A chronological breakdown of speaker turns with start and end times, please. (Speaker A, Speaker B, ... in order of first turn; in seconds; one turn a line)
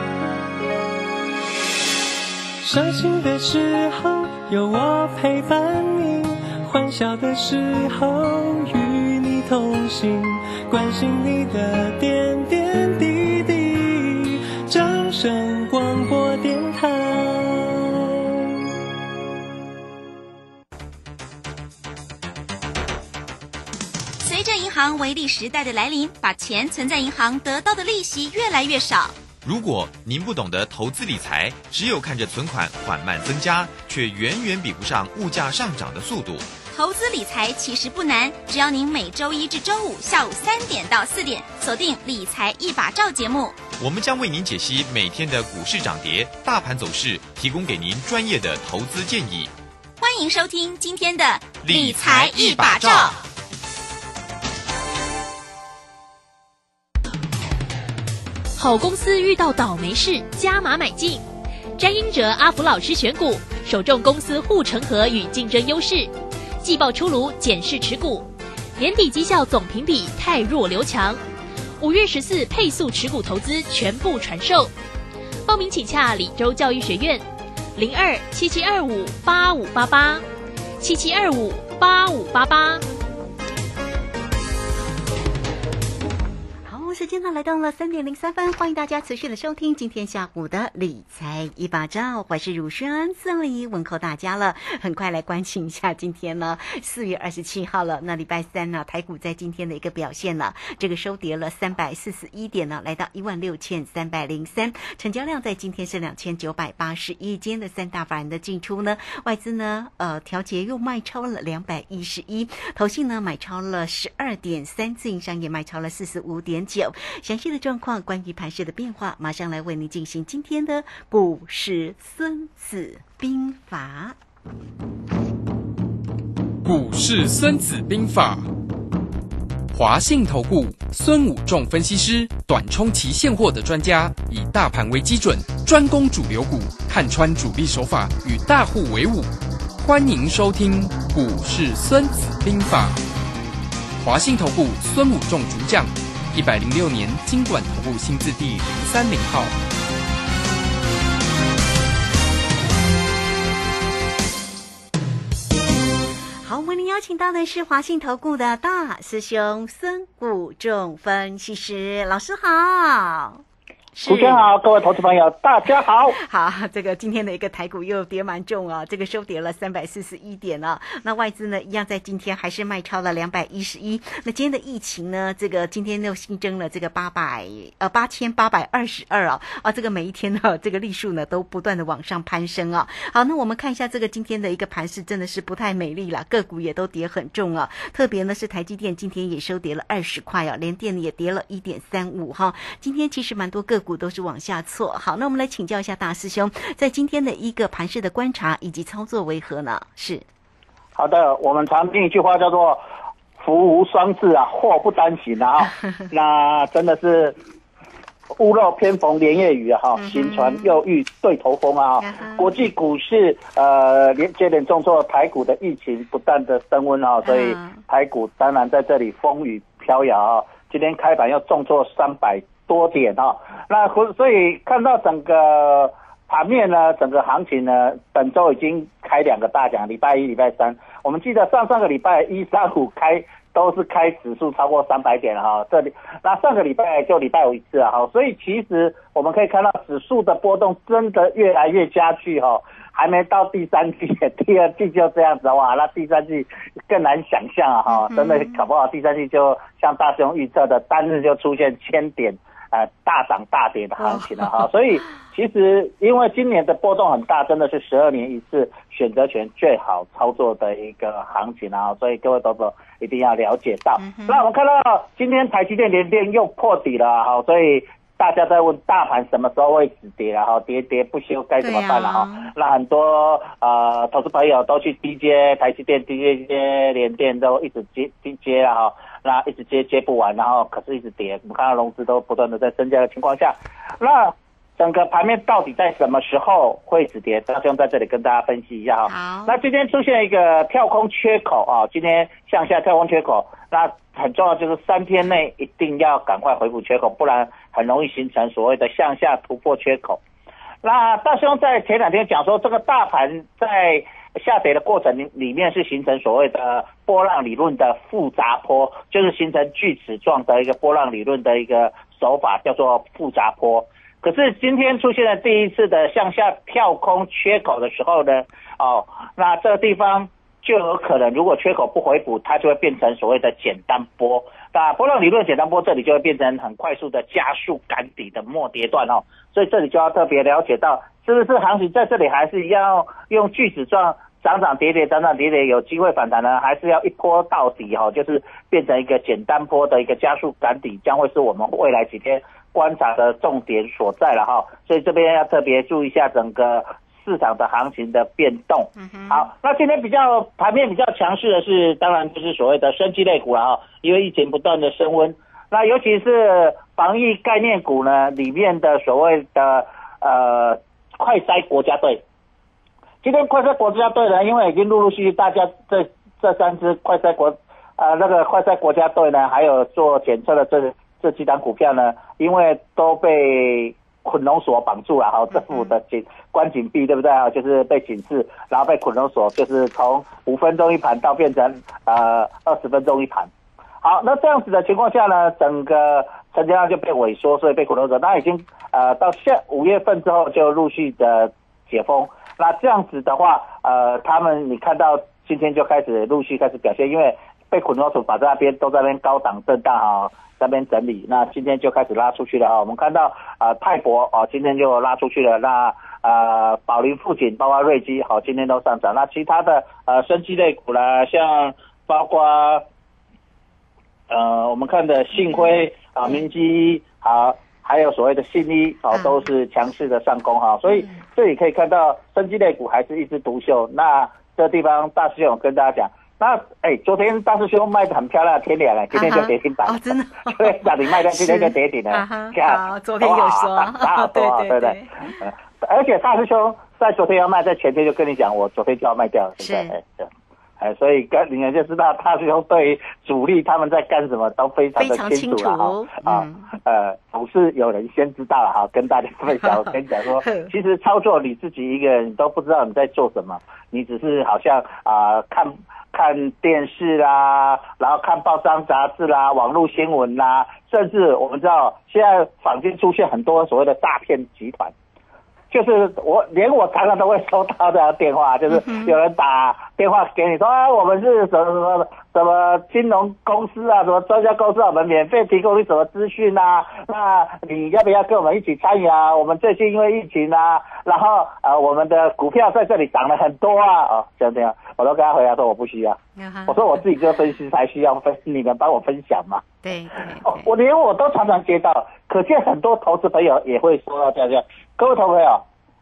Speaker A: 2.6-18.3
Speaker B: 24.2-29.2
Speaker C: 29.4-36.5
Speaker B: 36.7-43.6
Speaker C: 43.8-49.5
Speaker B: 50.0-53.2
Speaker C: 51.6-53.2
Speaker D: 58.6-61.2
Speaker D: 61.8-71.2
Speaker D: 71.8-74.7
Speaker D: 75.5-77.2
Speaker D: 77.8-80.2
Speaker D: 80.8-82.8
Speaker E: 86.7-124.2
Speaker F: 126.6-128.5
Speaker F: 129.7-143.0
Speaker F: 144.0-149.6
Speaker E: 156.4-163.4
Speaker E: 163.9-164.5
Speaker G: 164.0-166.2
Speaker E: 165.7-200.2
Speaker G: 200.9-202.8
Speaker G: 203.4-207.4
Speaker G: 208.4-300.2
Speaker E: 210.0-210.8
Speaker E: 212.0-212.6
Speaker E: 217.2-217.8
Speaker E: 247.9-248.7
Speaker E: 254.0-254.7
Speaker E: 264.0-264.4
Speaker E: 271.6-272.5
Speaker E: 289.1-289.6
Speaker G: 300.8-362.2
Speaker E: 349.0-349.5
Speaker G: 363.2-383.5
Speaker E: 375.5-375.9
Speaker G: 384.0-412.8
Speaker G: 414.3-440.3
Speaker E: 419.1-419.4
Speaker E: 420.9-421.1
Speaker E: 429.1-435.3
Speaker E: 439.6-439.9
Speaker G: 440.8-464.9
Speaker E: 445.0-446.7
Speaker E: 449.5-450.7
Speaker G: 465.7-489.6
Speaker E: 468.7-469.2
Speaker E: 486.4-487.0
Speaker E: 489.8-490.7
Speaker G: 490.4-495.6